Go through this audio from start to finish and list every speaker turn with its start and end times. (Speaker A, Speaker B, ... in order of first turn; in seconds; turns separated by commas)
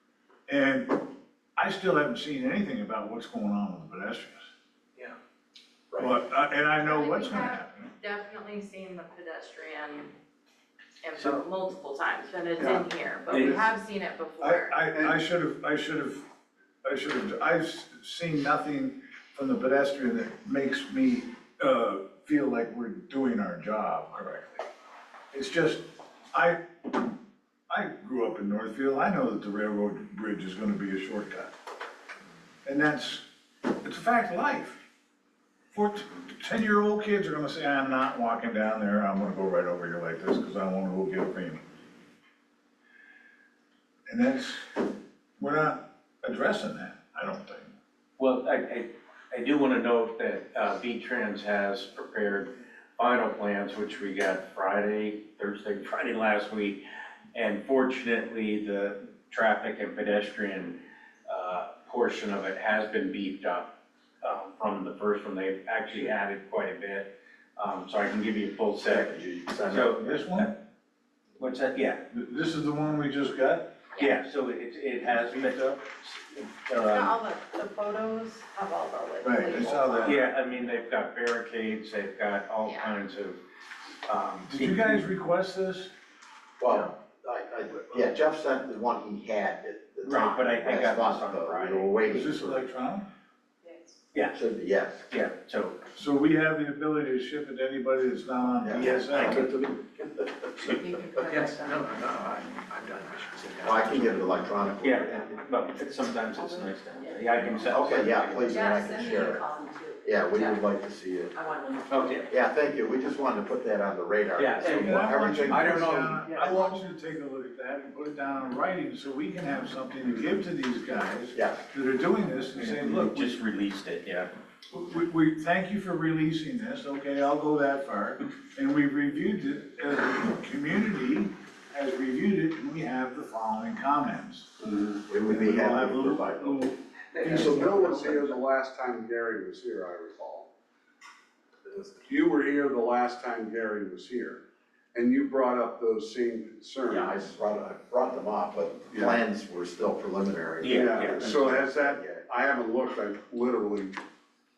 Speaker A: 0.5-4.5, Speaker A: 6.0-7.9, Speaker B: 6.8-10.1, Speaker B: 11.0-14.8, Speaker C: 13.3-13.6, Speaker A: 14.4-16.2, Speaker D: 14.9-15.2, Speaker A: 16.8-24.6, Speaker A: 25.3-26.6, Speaker A: 27.7-31.5, Speaker A: 32.6-33.2, Speaker A: 33.8-34.8, Speaker A: 35.7-41.6, Speaker A: 44.1-44.9, Speaker A: 45.4-47.7, Speaker C: 48.2-56.8, Speaker C: 57.3-69.1, Speaker E: 68.8-70.2, Speaker C: 69.7-70.5, Speaker A: 70.0-70.5, Speaker C: 71.4-72.0, Speaker A: 72.1-73.7, Speaker B: 73.9-74.2, Speaker C: 74.0-77.2, Speaker A: 75.1-75.8, Speaker B: 76.8-80.2, Speaker A: 79.2-80.3, Speaker C: 80.0-83.4, Speaker B: 82.6-82.9, Speaker C: 84.0-85.0, Speaker A: 84.5-85.9, Speaker E: 86.6-92.6, Speaker C: 90.0-91.9, Speaker A: 92.0-93.1, Speaker B: 93.6-93.9, Speaker E: 94.3-95.1, Speaker C: 95.1-95.8, Speaker A: 96.0-99.5, Speaker E: 98.6-99.7, Speaker B: 100.6-101.9, Speaker F: 101.2-104.1, Speaker E: 103.6-105.5, Speaker C: 104.8-108.6, Speaker B: 106.3-107.2, Speaker E: 107.7-109.4, Speaker B: 108.5-110.6, Speaker E: 110.0-111.3, Speaker B: 111.3-112.3, Speaker C: 111.9-112.3, Speaker E: 112.3-116.1, Speaker C: 114.4-116.6, Speaker A: 114.7-123.4, Speaker E: 121.3-121.6, Speaker C: 122.5-124.3, Speaker A: 124.7-134.5, Speaker E: 135.1-136.7, Speaker A: 135.3-138.3, Speaker E: 137.2-138.1, Speaker D: 137.3-140.5, Speaker D: 141.6-144.4, Speaker D: 144.9-147.1, Speaker E: 146.9-152.2, Speaker D: 148.9-149.2, Speaker C: 150.6-151.5, Speaker D: 150.7-154.0